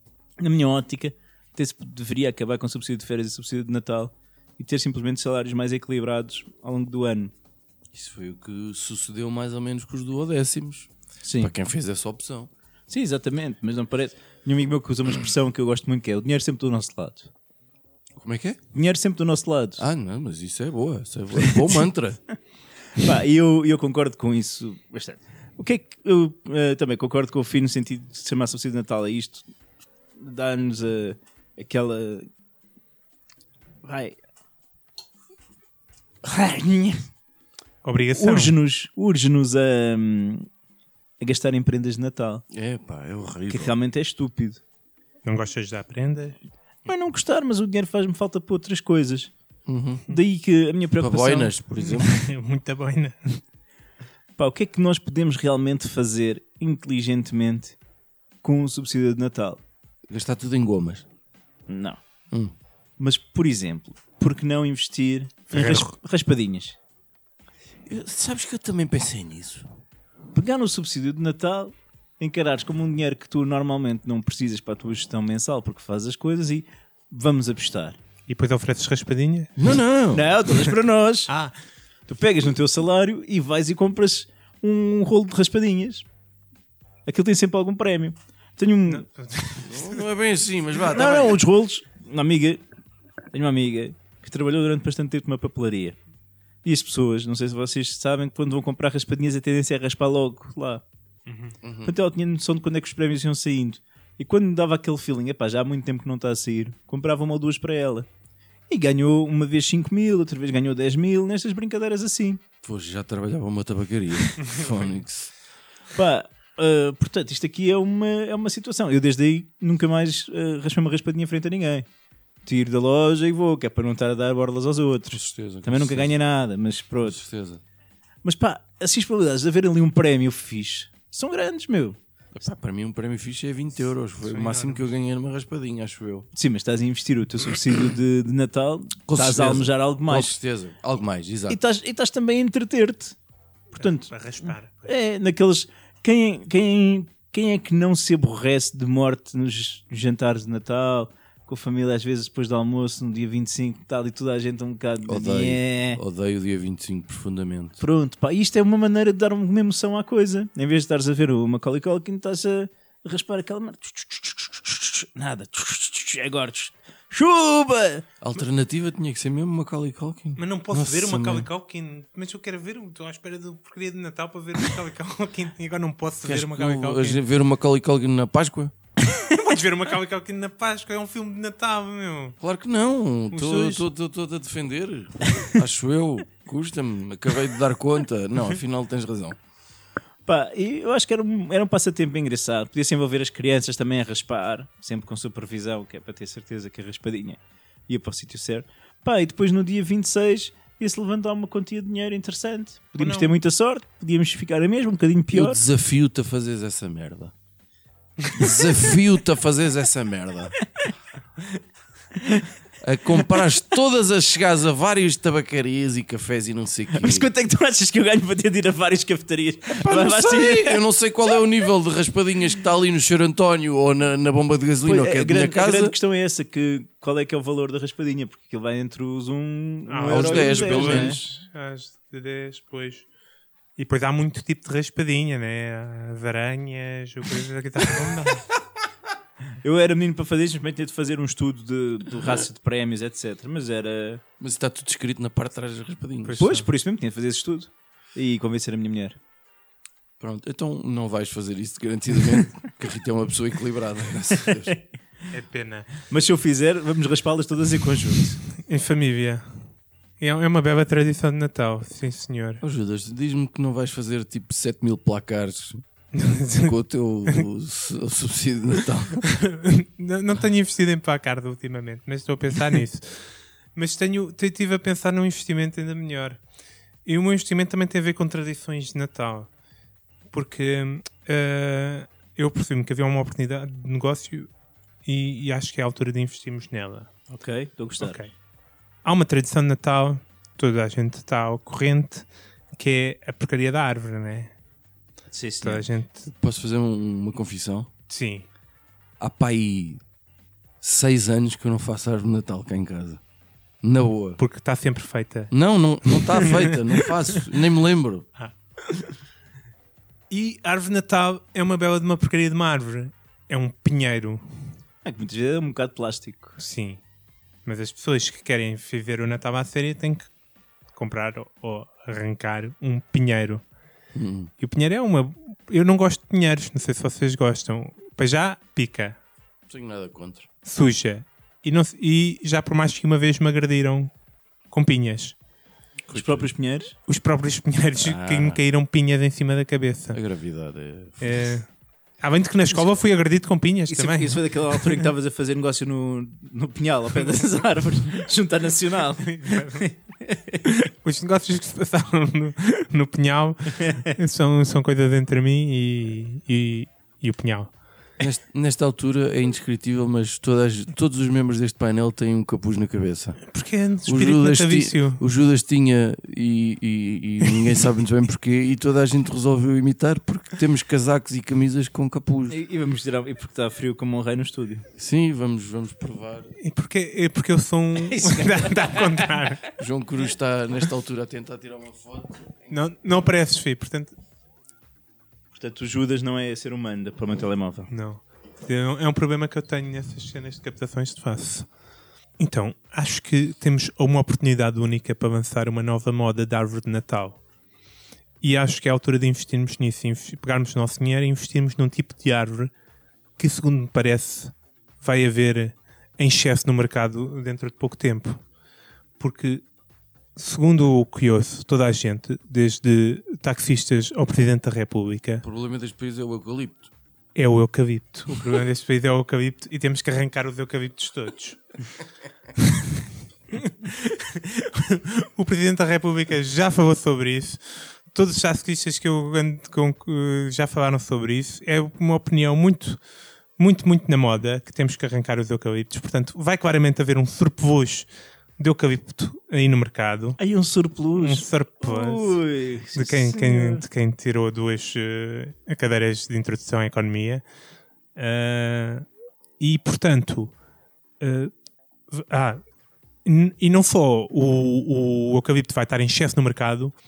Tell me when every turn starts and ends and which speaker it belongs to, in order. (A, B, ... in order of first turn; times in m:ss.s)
0:00.4-0:07.3 A
0:07.9-0:12.5 B
0:11.2-0:11.5 A
0:12.9-0:17.3 A
0:18.2-0:18.6 B
0:18.7-0:19.8 A
0:19.8-0:22.2 B
0:22.9-0:29.4 A
0:30.2-0:32.3 A
0:33.8-0:34.2 A
0:36.2-0:37.0 A
0:37.8-0:38.6 C
0:38.1-0:40.5 A
0:41.2-0:42.4 A
0:42.5-0:43.8 B
0:43.5-0:44.6 A
0:45.2-0:46.4 C
0:46.8-0:49.3 A
0:49.6-0:50.1 B
0:50.1-0:51.5 A
0:51.0-0:52.2 B
0:51.8-0:53.4 C
0:54.4-0:57.8 A
0:58.4-0:59.6 A
1:00.1-1:01.0 B
1:01.7-1:02.0 A
1:03.0-1:06.8 A
1:05.5-1:05.9 C
1:07.8-1:09.7 B
1:10.3-1:18.0 A
1:18.3-1:19.5 C
1:19.6-1:20.3 B
1:20.1-1:21.3 A
1:21.3-1:21.5 C
1:22.1-1:26.0 A
1:27.0-1:29.0 A
1:28.9-1:30.0 C
1:29.6-1:31.4 B
1:30.9-1:32.6 A
1:30.9-1:31.3 C
1:33.3-1:36.0 A
1:36.6-1:40.8 A
1:41.2-1:41.5 C
1:41.6-1:41.9 B
1:41.8-1:48.1 A
1:48.7-1:52.4 A
1:52.6-1:55.3 B
1:54.4-1:54.7 C
1:55.9-2:01.9 A
2:02.4-2:07.2 A
2:05.1-2:06.1 B
2:07.0-2:07.6 B
2:08.2-2:12.0 A
2:12.3-2:16.3 B
2:14.2-2:14.8 C
2:16.3-2:20.3 A
2:19.1-2:21.6 B
2:21.5-2:23.2 A
2:23.7-2:24.9 C
2:23.7-2:36.0 A
2:35.0-2:37.8 B
2:37.8-2:48.0 A
2:48.2-2:51.5 B
2:50.4-2:57.2 C
2:56.2-2:58.7 B
2:59.1-3:02.4 C
3:02.4-3:09.4 B
3:03.3-3:03.9 C
3:10.2-3:25.6 A
3:23.0-3:23.3 C
3:25.3-3:27.3 B
3:28.3-3:30.6 B
3:32.2-3:32.5 A
3:32.8-3:37.3 B
3:36.9-3:40.8 A
3:39.7-3:45.9 B
3:44.8-3:51.2 A
3:49.8-3:53.0 C
3:50.1-3:51.2 B
3:53.8-3:58.5 C
3:59.6-4:04.2 A
4:04.4-4:06.4 B
4:06.2-4:06.7 C
4:06.4-4:09.2 A
4:10.2-4:14.7 B
4:15.3-4:15.9 C
4:16.1-4:18.4 A
4:18.6-4:19.7 C
4:20.2-4:22.6 C
4:22.6-4:25.8 B
4:26.1-4:26.7 C
4:26.6-4:29.3 B
4:29.2-4:36.4 C
4:37.0-4:39.5 C
4:40.3-4:44.5 C
4:45.0-4:47.1 C
4:47.3-4:48.2 A
4:48.0-4:48.3 C
4:49.0-4:54.5 C
4:55.3-4:55.8 A
4:55.6-4:56.3 C
4:56.4-4:57.9 B
4:58.1-4:58.5 C
4:59.2-5:00.0 B
5:00.8-5:03.2 B
5:03.8-5:04.4 B
5:04.4-5:05.5 C
5:05.5-5:08.2 B
5:06.0-5:07.4 C
5:08.4-5:09.1 C
5:10.3-5:14.7 C
5:15.0-5:16.6 A
5:16.6-5:17.0 C
5:17.6-5:20.3 C
5:20.9-5:23.6 C
5:24.1-5:24.5 B
5:24.6-5:29.2 C
5:29.7-5:30.5 B
5:30.6-5:34.1 C
5:34.7-5:35.3 C
5:36.1-5:36.5 B
5:36.1-5:36.9 A
5:37.1-5:40.2 C
5:38.0-5:38.6 B
5:40.1-5:41.5 B
5:41.2-5:45.1 C
5:43.9-5:50.6 A
5:49.2-5:49.9 C
5:50.7-5:57.7 C
5:58.2-6:03.4 B
6:03.4-6:05.2 C
6:04.0-6:12.6 B
6:12.5-6:14.8 A
6:14.9-6:16.5 B
6:16.6-6:19.6 C
6:18.1-6:19.5 A
6:19.8-6:22.7 B
6:22.7-6:24.1 C
6:25.5-6:27.9 A
6:27.9-6:31.6 C
6:32.4-6:37.4 C
6:38.4-6:42.7 C
6:43.4-6:48.4 C
6:49.2-6:49.6 C
6:50.4-6:55.4 C
6:55.4-6:56.9 B
6:57.3-7:01.9 C
7:02.6-7:13.0 C
7:13.6-7:20.4 C
7:20.4-7:23.8 A
7:21.1-7:22.4 C
7:22.9-7:27.4 C
7:28.2-7:29.0 C
7:29.6-7:30.5 C
7:31.2-7:31.5 C
7:32.1-7:32.6 C
7:33.2-7:36.9 C